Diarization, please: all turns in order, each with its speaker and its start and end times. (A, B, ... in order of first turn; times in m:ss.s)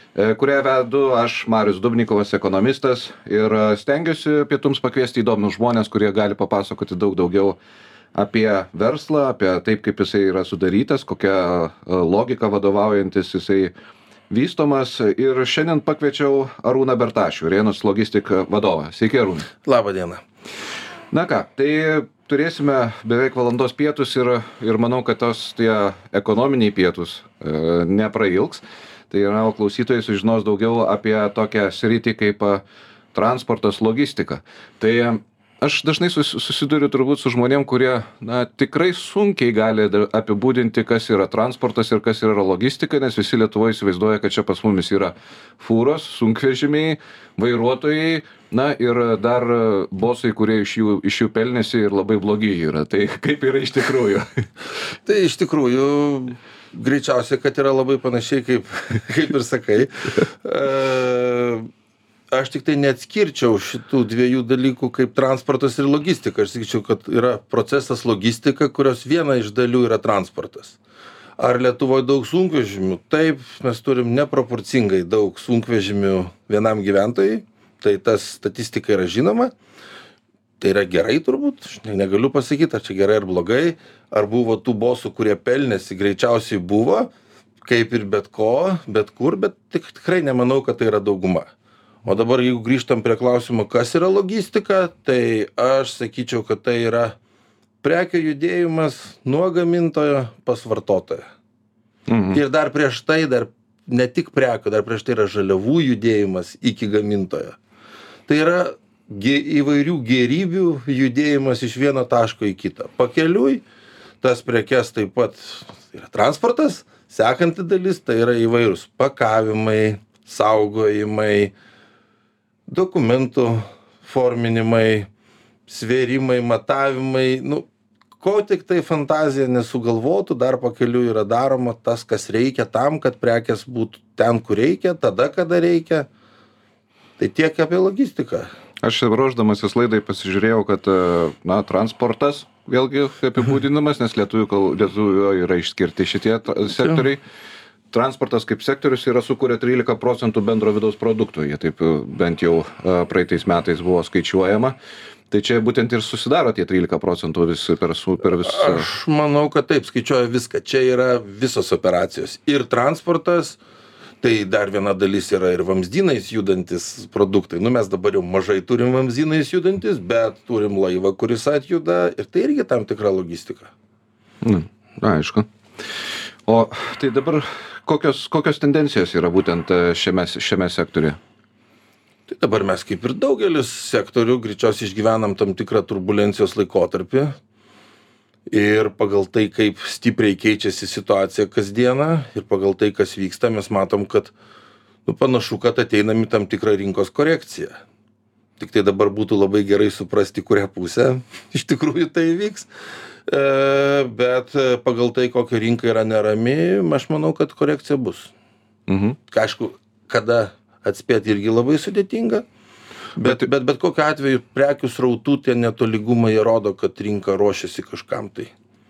0:00.1-0:07.6 A
0:08.1-0:13.7 A
0:14.3-0:19.5 A
0:19.6-0:20.2 B
0:21.1-0:32.6 A
0:33.1-0:54.4 A
0:55.0-1:01.7 B
1:02.3-1:10.8 B
1:11.4-1:19.5 B
1:20.6-1:27.1 B
1:27.6-1:31.5 B
1:32.0-1:37.2 B
1:37.8-1:41.2 B
1:42.1-1:42.4 A
1:42.3-1:47.6 B
1:48.3-1:53.6 B
1:54.2-2:01.5 B
2:02.7-2:05.1 B
2:05.7-2:07.7 B
2:08.2-2:16.1 B
2:17.2-2:18.5 B
2:18.8-2:27.2 A
2:27.9-2:34.8 A
2:35.3-2:38.9 A
2:38.4-2:43.6 B
2:44.2-2:53.7 B
2:54.4-2:55.5 A
2:56.4-3:01.2 A
3:02.3-3:07.4 B
3:08.5-3:14.3 B
3:15.0-3:17.8 B
3:18.6-3:22.7 B
3:23.2-3:28.3 B
3:28.9-3:29.2 A
3:29.3-3:32.4 B
3:33.2-3:38.5 B
3:33.2-3:33.5 A